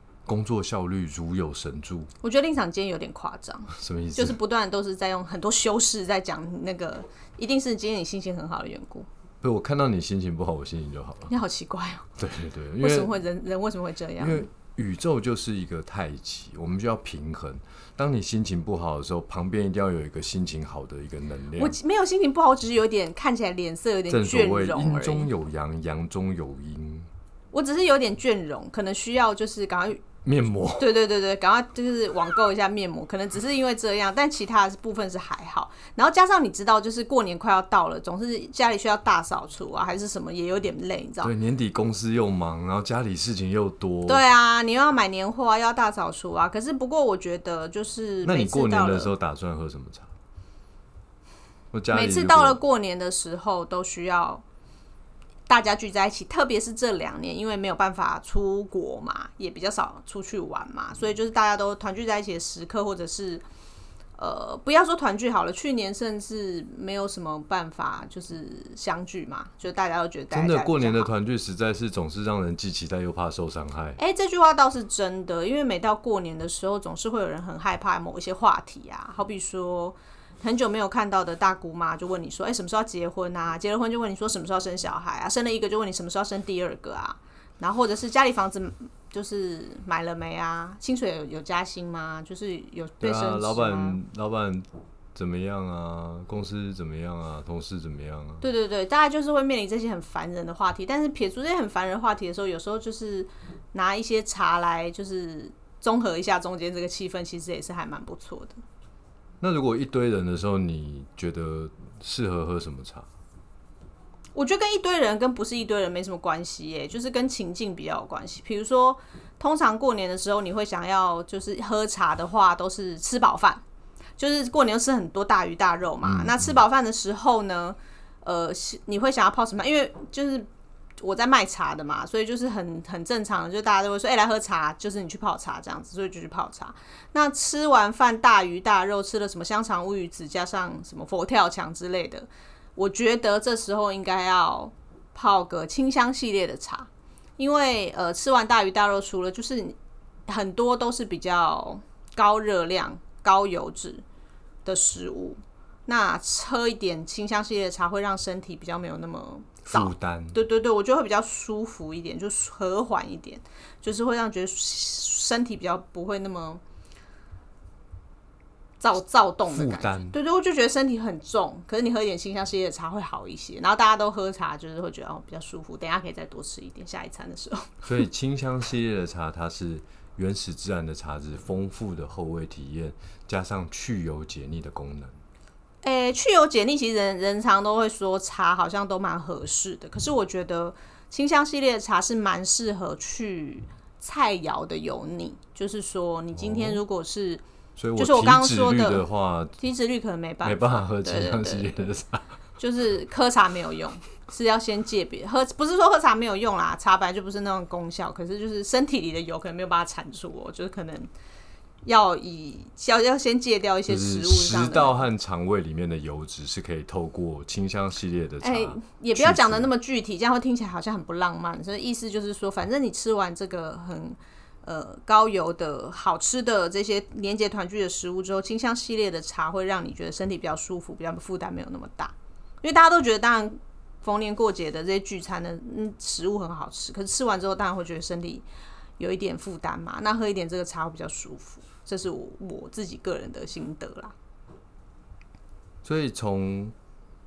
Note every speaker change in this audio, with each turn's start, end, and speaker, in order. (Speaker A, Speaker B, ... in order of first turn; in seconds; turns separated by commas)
Speaker A: 0.2-2.1, Speaker B: 2.2-9.1, Speaker A: 3.7-4.4, Speaker A: 9.4-11.3, Speaker B: 11.3-12.1, Speaker A: 12.2-13.1, Speaker B: 12.8-14.5, Speaker A: 14.2-21.8, Speaker B: 21.6-25.3, Speaker A: 24.1-27.1, Speaker B: 27.5-30.0, Speaker A: 30.2-30.9, Speaker B: 30.8-41.3, Speaker A: 41.2-44.2, Speaker B: 44.1-49.1, Speaker A: 48.2-50.1, Speaker A: 51.7-52.6, Speaker B: 51.9-54.4, Speaker B: 55.5-63.4, Speaker B: 64.2-71.1, Speaker A: 70.3-74.0, Speaker B: 74.0-94.0, Speaker A: 93.0-98.5, Speaker B: 98.4-108.6, Speaker A: 109.4-113.1, Speaker B: 114.3-123.6, Speaker B: 124.2-130.5, Speaker A: 126.0-126.6, Speaker B: 131.0-149.8, Speaker B: 150.3-154.0, Speaker B: 154.6-166.6, Speaker A: 159.7-160.4, Speaker B: 168.8-177.9, Speaker A: 169.5-170.1, Speaker A: 177.8-185.2, Speaker B: 185.8-197.4, Speaker A: 196.3-196.8, Speaker A: 197.8-199.6, Speaker B: 198.0-199.0, Speaker B: 199.6-201.9, Speaker A: 200.4-202.2, Speaker B: 202.6-211.1, Speaker B: 211.8-215.1, Speaker A: 213.9-219.7, Speaker B: 218.4-238.4, Speaker B: 239.0-244.1, Speaker A: 245.8-246.7